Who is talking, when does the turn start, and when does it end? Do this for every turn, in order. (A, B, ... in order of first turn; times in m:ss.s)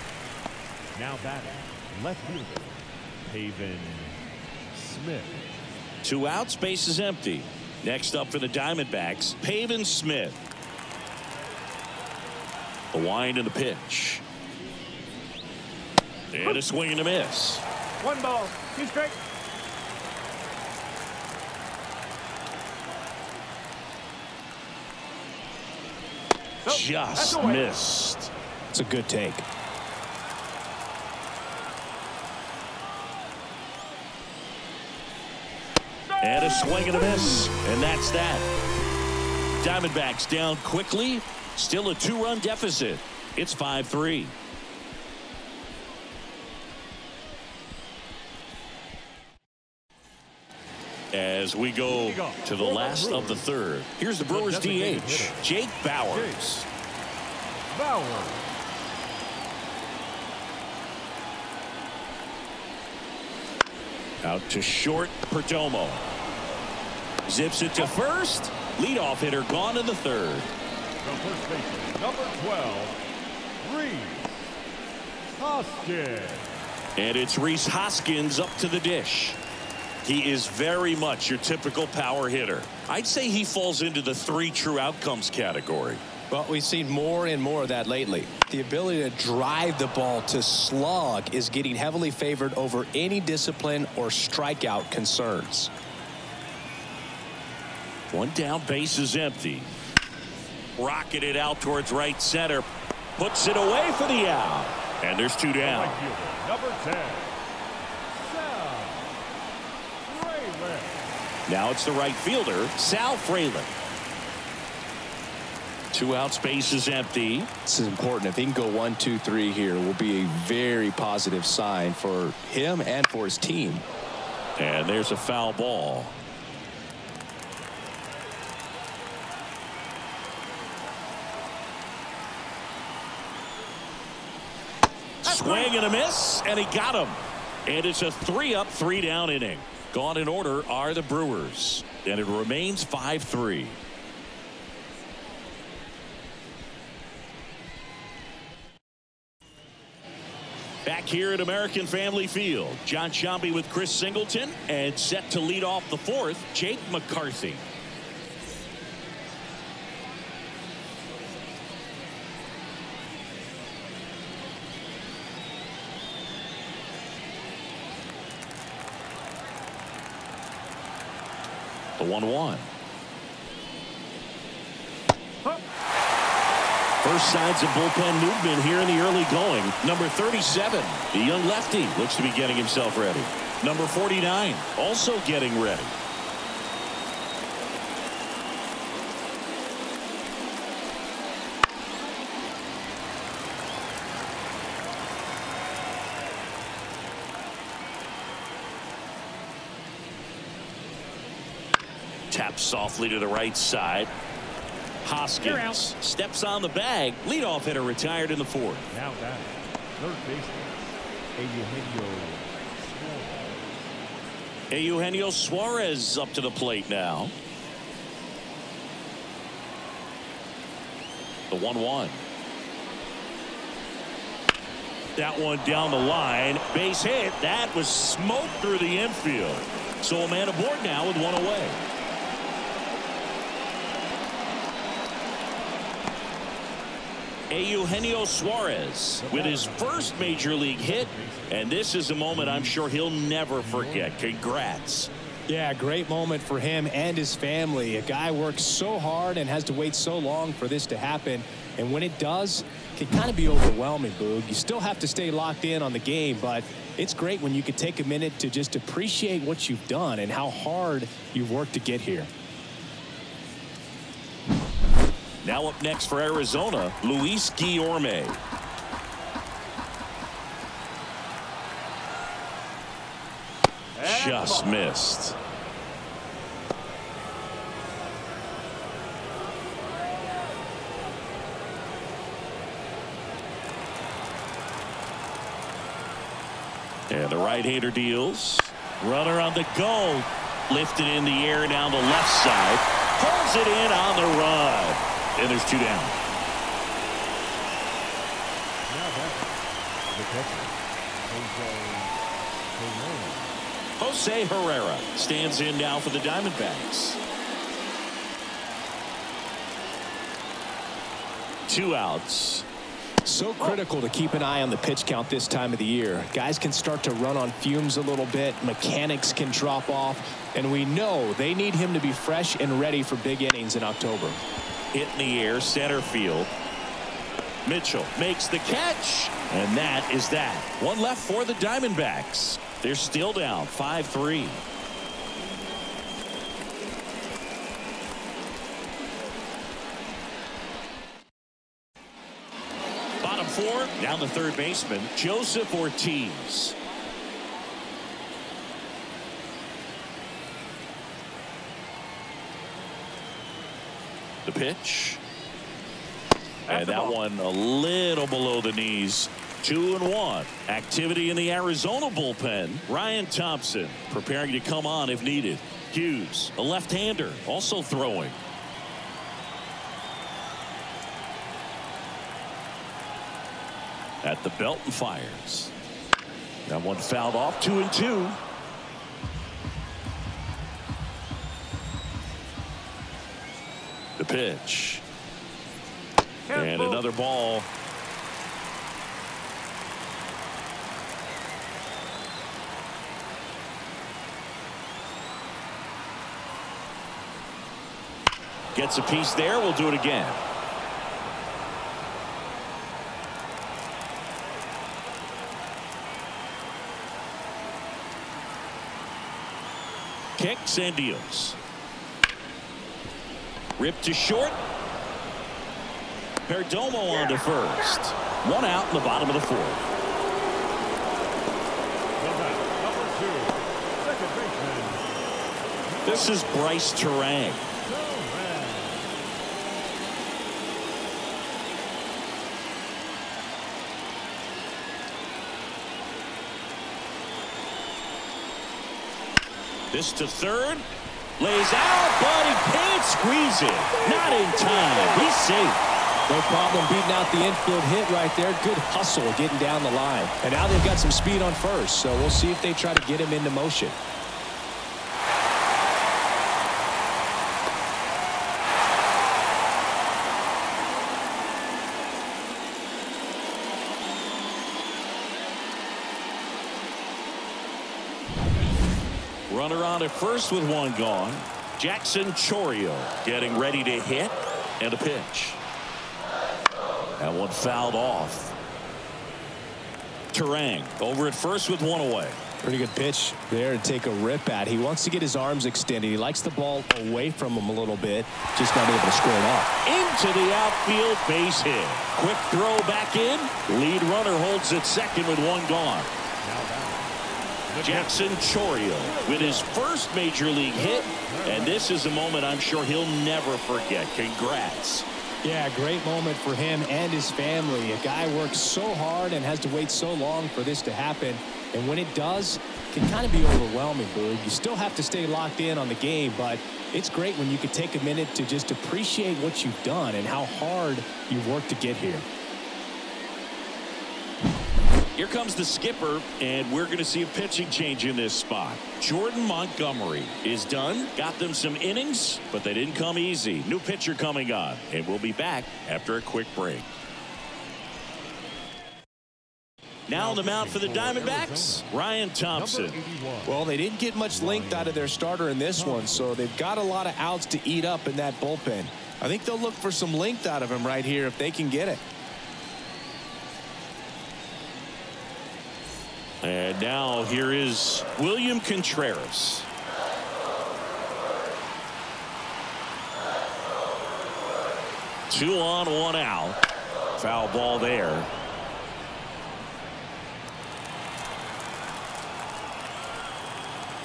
0:00.9-0:04.2 A
0:04.7-0:05.5 A
0:06.0-0:10.4 B
0:12.9-0:14.2 B
0:16.3-0:17.6 B
0:18.0-0:19.2 C
0:26.6-0:27.6 C
0:26.6-0:28.3 B
0:28.7-0:29.4 D
0:36.2-0:38.5 B
0:39.6-0:44.3 B
0:51.1-0:56.6 B
0:51.9-0:53.5 A
0:54.2-0:55.4 A
0:56.0-0:56.5 A
0:57.7-0:58.5 A
1:04.2-1:06.0 B
1:07.2-1:10.5 B
1:11.0-1:13.0 A
1:13.6-1:14.5 A
1:15.4-1:16.6 A
1:17.0-1:19.4 B
1:20.0-1:26.0 B
1:26.3-1:35.7 D
1:38.1-1:39.7 B
1:40.8-1:46.0 B
1:45.6-1:47.3 A
1:48.1-1:49.1 A
1:50.0-1:51.0 A
1:51.5-1:53.7 B
1:55.9-1:57.5 B
1:57.6-2:03.8 D
2:04.6-2:06.1 B
2:15.2-2:23.8 B
2:15.3-2:15.7 C
2:30.8-2:37.6 B
2:52.0-2:52.7 B
2:57.0-3:05.9 B
3:22.3-3:24.1 B
3:25.0-3:28.8 B
3:25.4-3:25.8 C
3:28.9-3:33.7 A
3:34.7-3:37.3 B
3:41.5-3:42.2 B
3:45.2-3:51.8 B
3:57.5-4:05.1 B
3:59.2-4:01.7 A
4:02.4-4:02.8 A
4:03.6-4:04.2 A
4:05.5-4:22.3 D
4:25.4-4:28.4 B
4:34.0-4:34.7 C
4:34.0-4:35.3 B
4:47.1-4:56.2 B
4:58.9-4:59.5 A
5:00.1-5:02.1 A
5:02.7-5:03.6 A
5:04.0-5:07.2 B
5:11.7-5:12.6 B
5:13.2-5:24.4 D
5:24.9-5:26.5 B
5:27.6-5:34.6 B
5:43.2-5:46.8 B
5:54.4-5:55.2 B
5:56.7-5:57.2 C
5:56.7-6:08.4 B
6:14.2-6:15.7 B
6:16.7-6:18.4 B
6:24.2-6:25.0 B
6:26.5-6:27.0 C
6:26.5-6:27.7 B
6:38.7-6:40.4 B
6:50.4-6:51.6 B
6:53.8-6:54.6 B
6:56.4-6:59.8 B
7:02.2-7:05.1 A
7:05.8-7:06.4 A
7:06.0-7:07.7 B
7:07.8-7:09.1 A
7:19.9-7:20.8 B
7:21.4-7:25.8 B
7:26.3-7:34.0 D
7:49.5-7:55.6 B
7:57.2-7:58.5 B
8:00.3-8:02.4 B
8:02.6-8:09.7 D
8:09.8-8:16.1 B
8:16.4-8:17.2 A
8:17.7-8:19.7 A
8:17.8-8:25.0 B
8:20.7-8:21.9 A
8:25.4-8:42.2 D
8:45.1-8:56.9 B
9:00.1-9:03.0 B
9:00.1-9:01.8 A
9:02.5-9:03.6 A
9:03.4-9:12.0 D
9:04.3-9:05.2 A
9:05.7-9:06.5 A
9:16.4-9:19.7 B
9:25.3-9:26.6 B
9:27.2-9:28.3 B